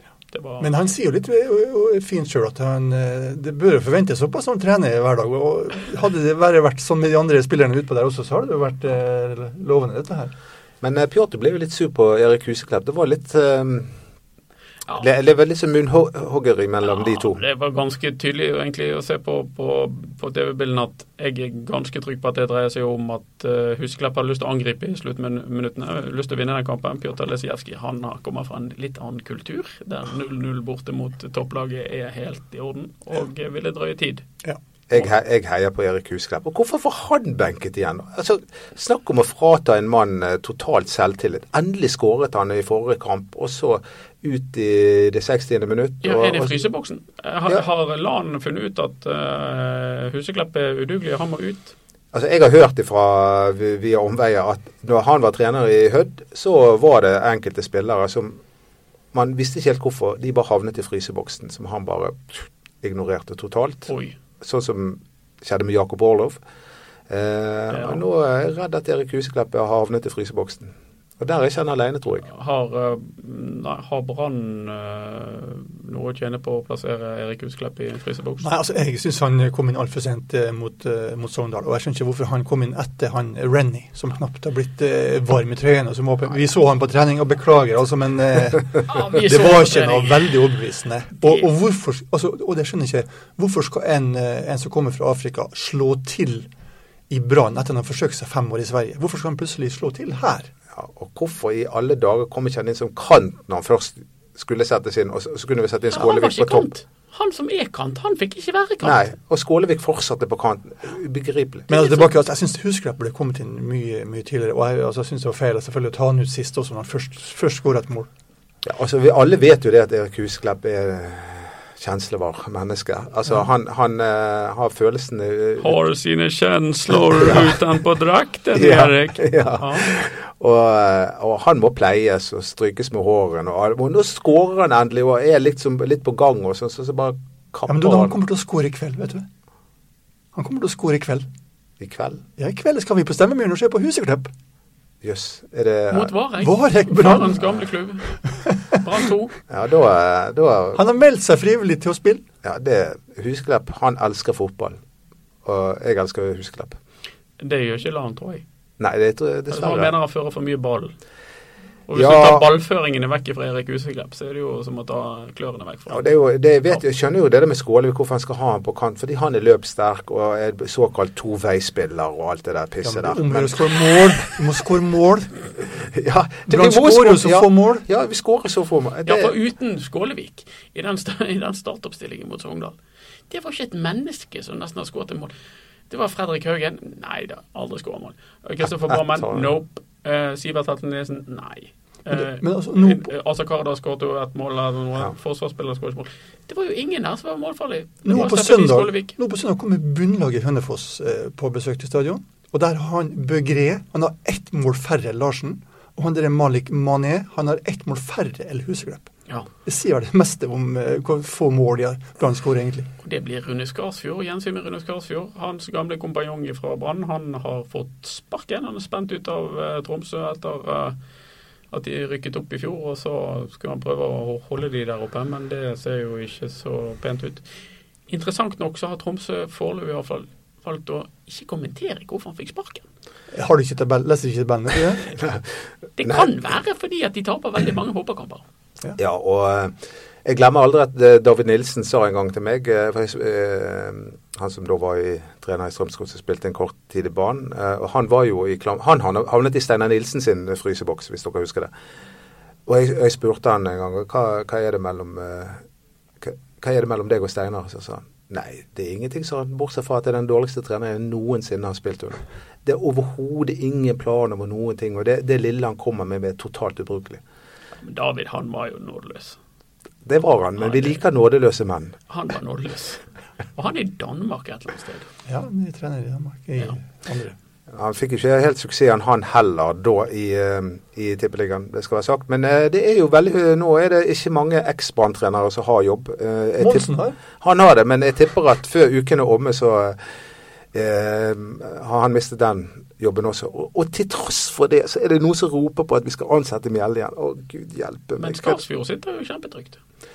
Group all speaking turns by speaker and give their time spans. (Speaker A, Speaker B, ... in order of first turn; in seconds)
Speaker A: 0.3-0.7, 16.9-34.3, 46.0-51.7, 63.9-64.2, 67.7-68.0, 72.3-78.5, 88.9-90.4, 105.9-109.0, 111.7-112.1, 125.6-130.1, 145.9-148.2, 148.7-149.3, 157.4-158.4, 159.5-160.9, 161.9-166.1, 179.1-182.8, 183.3-185.3, 185.9-199.1, 213.0-221.0, 221.7-227.5, 228.1-232.9, 236.0-238.4, 267.8-269.4, 270.6-271.0, 272.1-273.0, 273.6-275.1, 298.2-299.8
Speaker B: 0.6-10.3, 78.4-96.5, 97.1-100.5, 111.7-118.1, 137.7-139.3, 140.3-141.3, 142.4-144.3, 146.4-147.4, 148.2-148.8, 150.8-152.2, 172.8-175.3, 176.5-177.8, 192.1-193.1, 198.1-209.1, 209.6-212.9, 233.3-235.1, 275.3-277.4, 286.6-287.2
Speaker C: 10.8-13.9, 15.0-17.4, 34.9-46.6, 52.1-58.4, 59.1-63.9, 64.4-66.4, 67.1-72.3, 100.7-106.7, 108.8-111.7, 118.6-125.8, 127.1-127.6, 128.6-138.2, 141.8-142.2, 145.0-146.1, 149.5-150.8, 152.4-154.8, 155.4-156.8, 158.8-159.9, 161.9-162.5, 165.9-174.0, 175.9-179.3, 189.1-189.5, 239.0-239.7, 240.2-251.7, 252.7-255.6, 256.2-267.2, 270.1-272.0, 277.7-290.0, 290.7-298.6